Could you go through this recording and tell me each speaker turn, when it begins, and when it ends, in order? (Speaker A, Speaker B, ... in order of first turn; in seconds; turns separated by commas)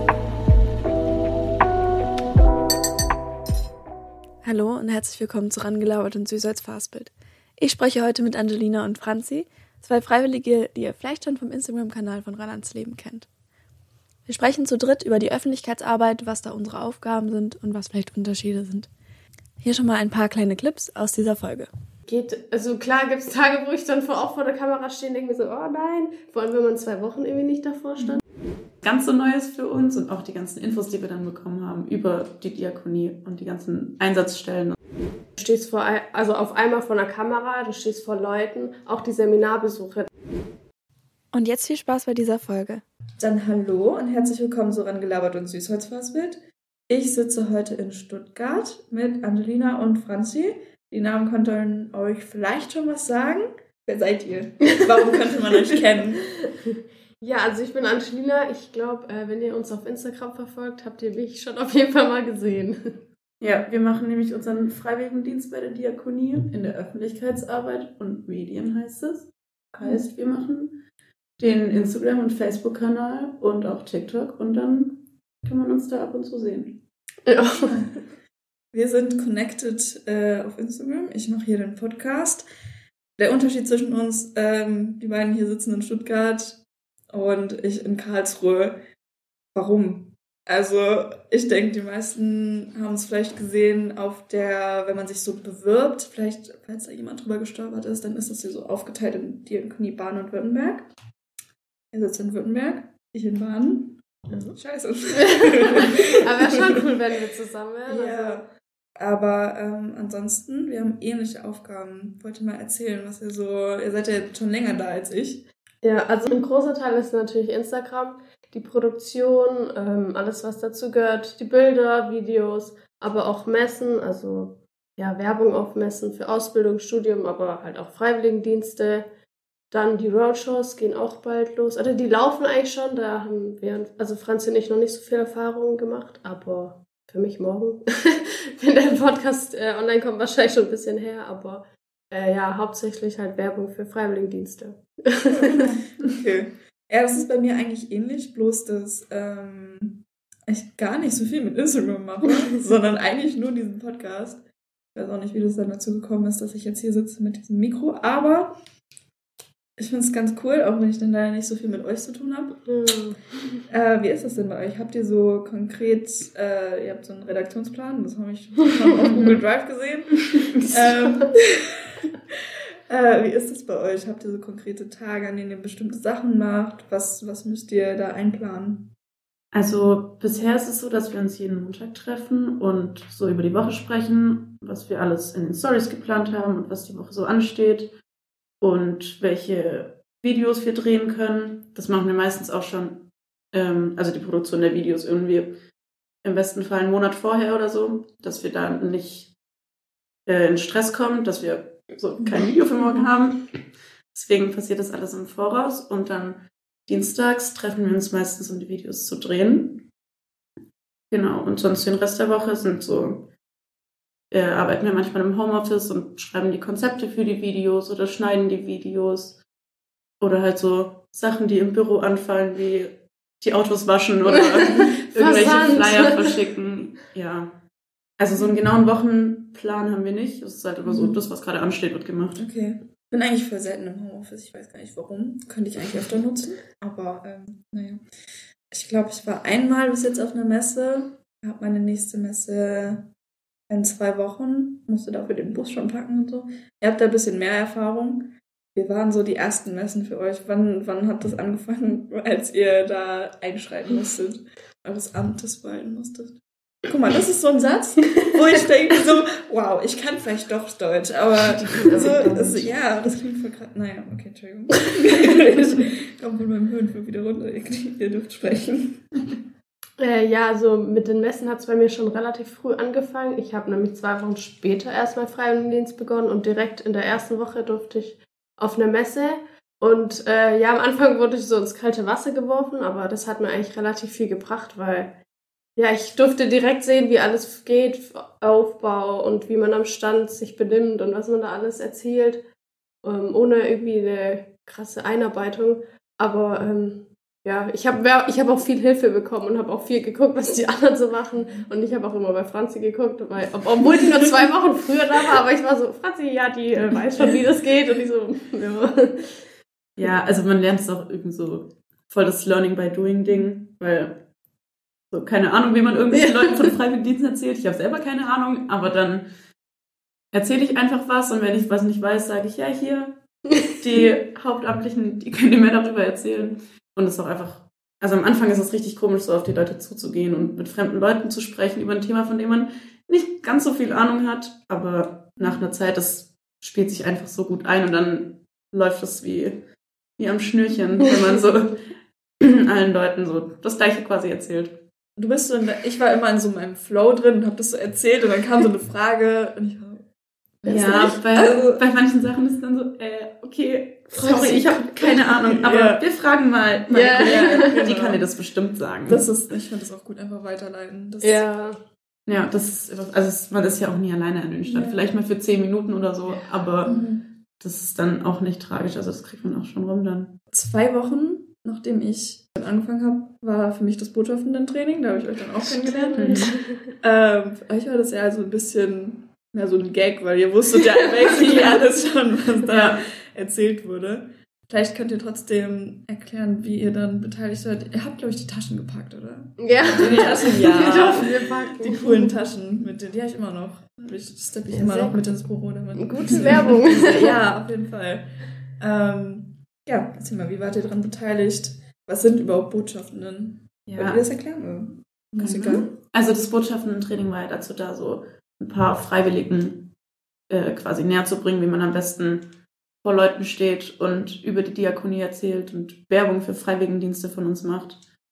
Speaker A: 4.4-13.3, Speaker A: 14.3-18.9, Speaker A: 19.6-21.7, Speaker B: 22.1-28.2, Speaker C: 28.8-34.8, Speaker B: 35.4-40.1, Speaker A: 41.3-42.8, Speaker D: 43.2-56.3, Speaker B: 57.2-63.0, Speaker C: 63.4-70.8, Speaker C: 71.4-76.8, Speaker B: 77.3-77.8, Speaker D: 77.7-77.9, Speaker D: 78.7-82.5, Speaker D: 83.2-88.8, Speaker D: 89.5-100.9, Speaker D: 101.9-106.8, Speaker B: 105.2-108.4, Speaker D: 107.9-115.5, Speaker B: 115.8-129.1, Speaker B: 129.7-145.7, Speaker D: 145.3-158.6, Speaker D: 159.8-162.7, Speaker B: 162.7-163.6, Speaker D: 163.7-172.4, Speaker C: 169.1-169.4, Speaker C: 170.4-170.9, Speaker D: 172.9-178.9, Speaker C: 179.5-187.9, Speaker C: 188.6-195.5, Speaker C: 196.2-199.3, Speaker C: 200.3-203.6, Speaker C: 204.1-209.8, Speaker C: 211.1-213.3, Speaker C: 214.3-219.4, Speaker C: 220.2-227.5, Speaker B: 224.3-226.4, Speaker C: 228.2-232.4, Speaker D: 230.9-231.2, Speaker D: 232.4-238.0, Speaker D: 238.7-243.1, Speaker D: 243.7-269.2, Speaker C: 261.6-262.8, Speaker B: 261.7-262.4, Speaker B: 270.0-285.1, Speaker B: 285.8-292.4, Speaker B: 293.0-309.4, Speaker C: 310.0-314.2, Speaker C: 315.1-319.3, Speaker B: 316.1-316.5, Speaker C: 320.3-339.6, Speaker C: 340.2-341.9, Speaker C: 342.4-344.8, Speaker D: 345.2-350.1, Speaker D: 350.6-351.8, Speaker B: 350.7-351.1, Speaker C: 350.7-359.3, Speaker B: 354.1-355.2, Speaker D: 355.4-356.0, Speaker B: 356.9-357.7, Speaker D: 357.2-358.3, Speaker D: 359.1-361.5, Speaker B: 361.2-361.8, Speaker C: 362.3-370.4, Speaker D: 364.6-365.0, Speaker D: 366.9-367.3, Speaker D: 370.5-405.9, Speaker B: 375.8-376.8, Speaker C: 376.2-376.6, Speaker C: 382.7-383.0, Speaker B: 389.6-392.3, Speaker C: 390.0-391.2, Speaker B: 394.7-395.2, Speaker B: 395.9-397.3, Speaker C: 403.9-404.2, Speaker C: 405.4-409.9, Speaker C: 410.5-412.5, Speaker C: 413.0-418.0